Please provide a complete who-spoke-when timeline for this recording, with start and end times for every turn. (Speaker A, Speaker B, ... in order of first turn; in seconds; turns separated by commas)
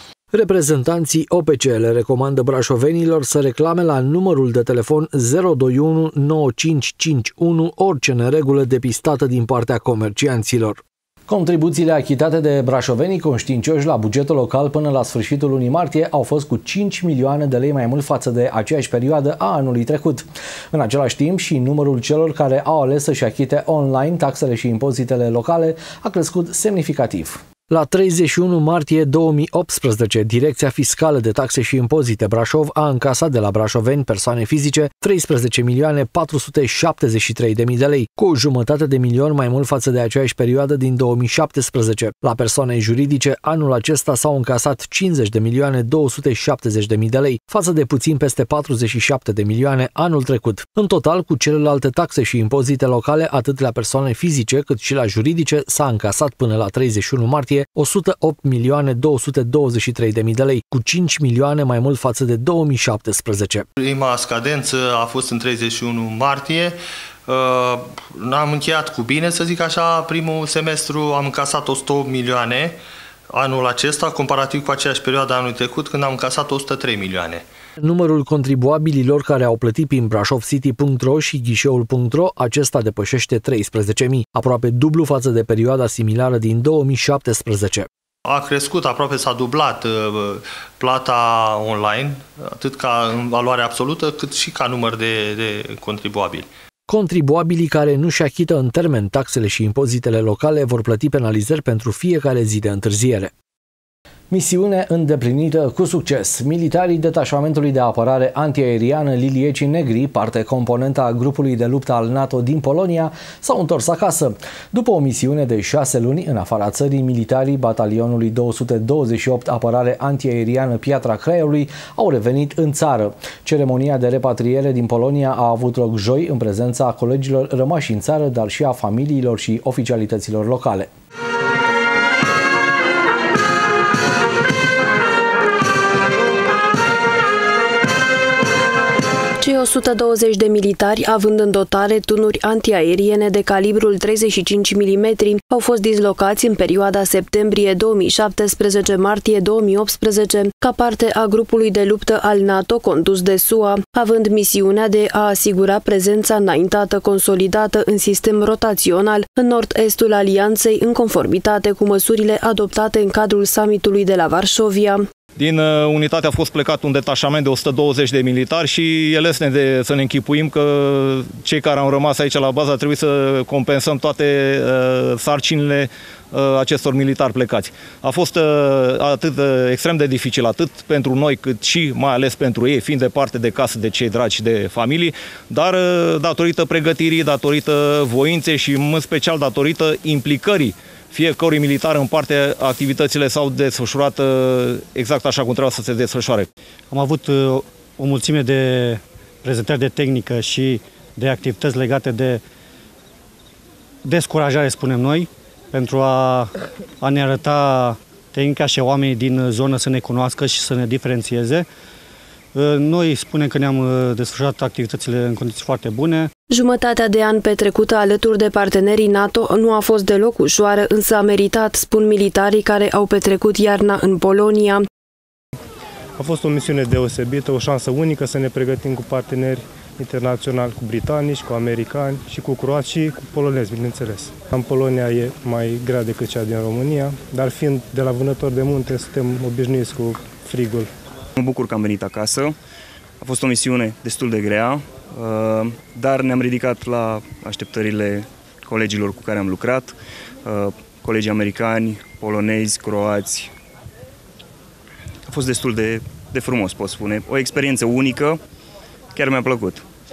Speaker A: 0.3-63.7, Speaker B: 63.8-72.8, Speaker B: 73.3-77.4, Speaker A: 77.8-87.9, Speaker B: 88.3-96.5, Speaker A: 96.9-103.3, Speaker A: 104.3-130.9, Speaker C: 139.4-165.0, Speaker D: 165.4-196.5, Speaker E: 196.9-202.4, Speaker E: 204.0-211.7, Speaker E: 212.5-216.3, Speaker C: 216.5-224.8, Speaker F: 226.2-240.9, Speaker G: 241.4-242.6, Speaker G: 243.2-253.5, Speaker G: 255.3-258.4, Speaker G: 259.1-259.8